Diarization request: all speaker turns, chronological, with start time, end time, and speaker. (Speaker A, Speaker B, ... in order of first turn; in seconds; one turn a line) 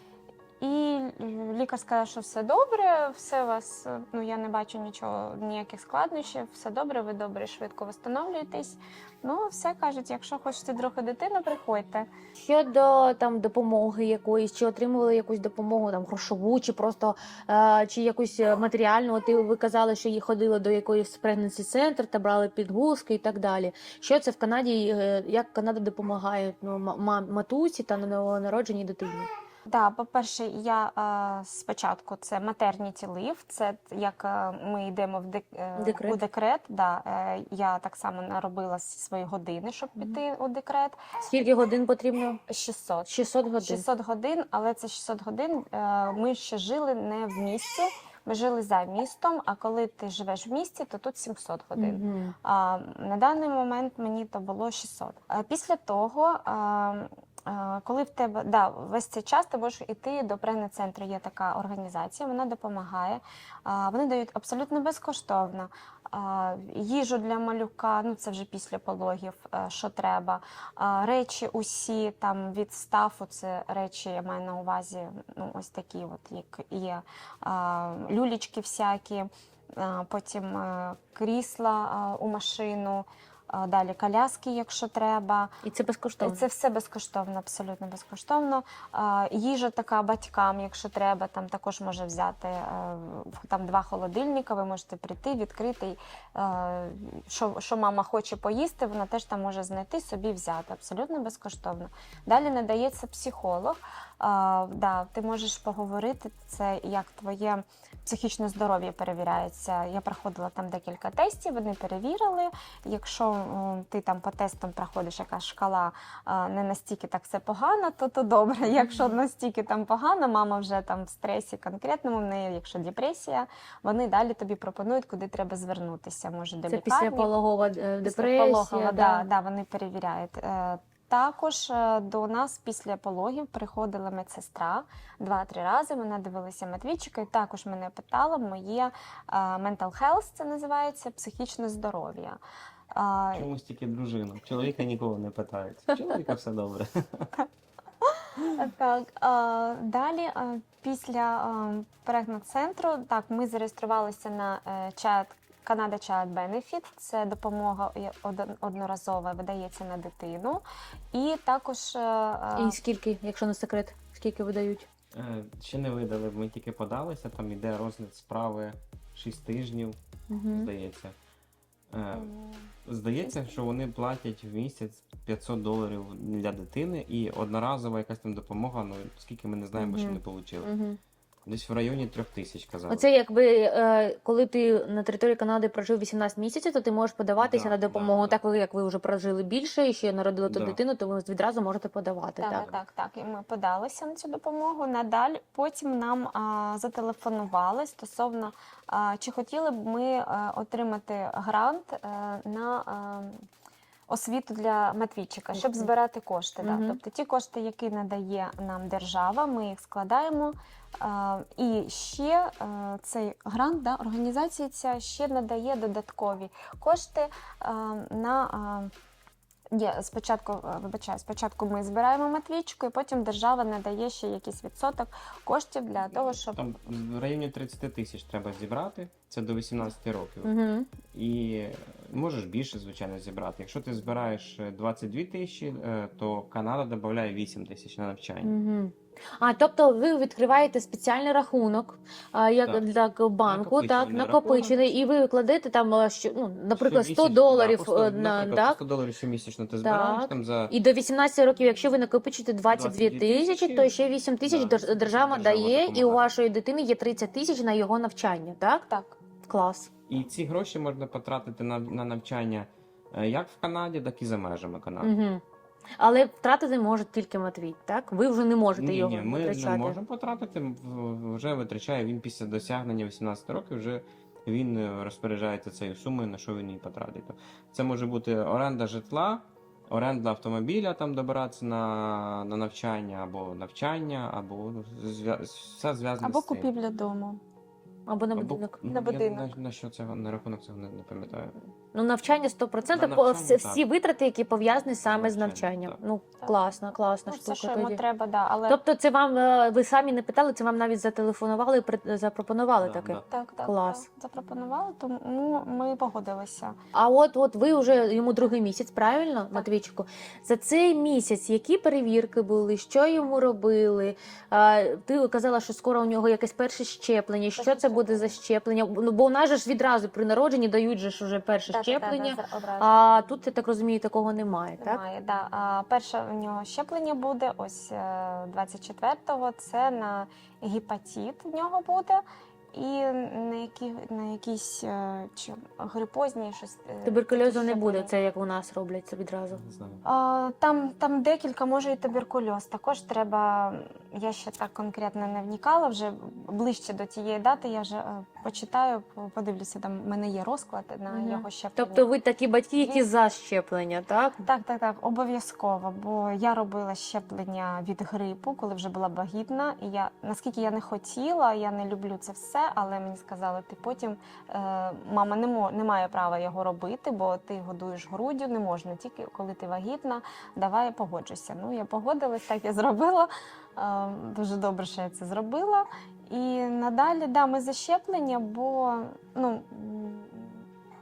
Speaker A: 0.6-12.1
Speaker B: 12.4-29.3
Speaker A: 29.7-41.0
Speaker B: 35.8-36.2
Speaker B: 41.2-42.4
Speaker A: 42.5-85.5
Speaker B: 43.0-43.8
Speaker B: 51.8-52.3
Speaker B: 85.6-86.4
Speaker A: 86.2-127.3
Speaker B: 118.8-119.1
Speaker B: 126.7-129.2
Speaker A: 128.0-142.4
Speaker A: 142.9-143.5
Speaker C: 143.3-147.3
Speaker A: 148.2-162.8
Speaker B: 162.6-164.9
Speaker C: 165.1-170.0
Speaker B: 170.3-170.7
Speaker C: 170.5-171.2
Speaker C: 171.9-172.3
Speaker A: 172.1-172.7
Speaker C: 172.8-180.7
Speaker B: 179.8-181.0
Speaker C: 181.4-183.1
Speaker B: 182.9-192.7
Speaker C: 187.4-188.4
Speaker C: 190.4-190.8
Speaker A: 192.4-203.4
Speaker C: 192.5-192.8
Speaker A: 204.1-218.9
Speaker B: 205.5-205.9
Speaker B: 206.6-207.0
Speaker A: 219.7-226.6
Speaker C: 226.5-230.5
Speaker B: 230.4-230.9
Speaker C: 231.1-238.5
Speaker B: 238.4-248.8
Speaker C: 243.4-244.8
Speaker C: 246.8-250.7
Speaker B: 249.8-258.9
Speaker C: 252.7-256.3
Speaker A: 258.9-259.2
Speaker B: 259.4-259.9
Speaker C: 260.1-265.1
Speaker B: 265.0-265.4
Speaker B: 266.0-269.9
Speaker C: 268.7-286.7
Speaker A: 286.2-287.4
Speaker B: 288.1-288.8
Speaker C: 288.3-291.5
Speaker A: 288.9-289.5
Speaker B: 291.9-298.0
Speaker C: 292.9-293.8
Speaker C: 295.0-296.0
Speaker A: 297.3-298.8
Speaker B: 298.7-304.0
Speaker C: 302.8-303.2
Speaker A: 303.3-306.7
Speaker B: 306.9-325.0
Speaker A: 317.6-318.4
Speaker A: 321.7-322.9
Speaker A: 324.8-332.2
Speaker A: 332.7-338.1
Speaker B: 337.0-339.6
Speaker C: 339.5-340.0
Speaker A: 340.0-352.1
Speaker B: 351.1-354.4
Speaker A: 352.8-353.1
Speaker A: 354.4-380.6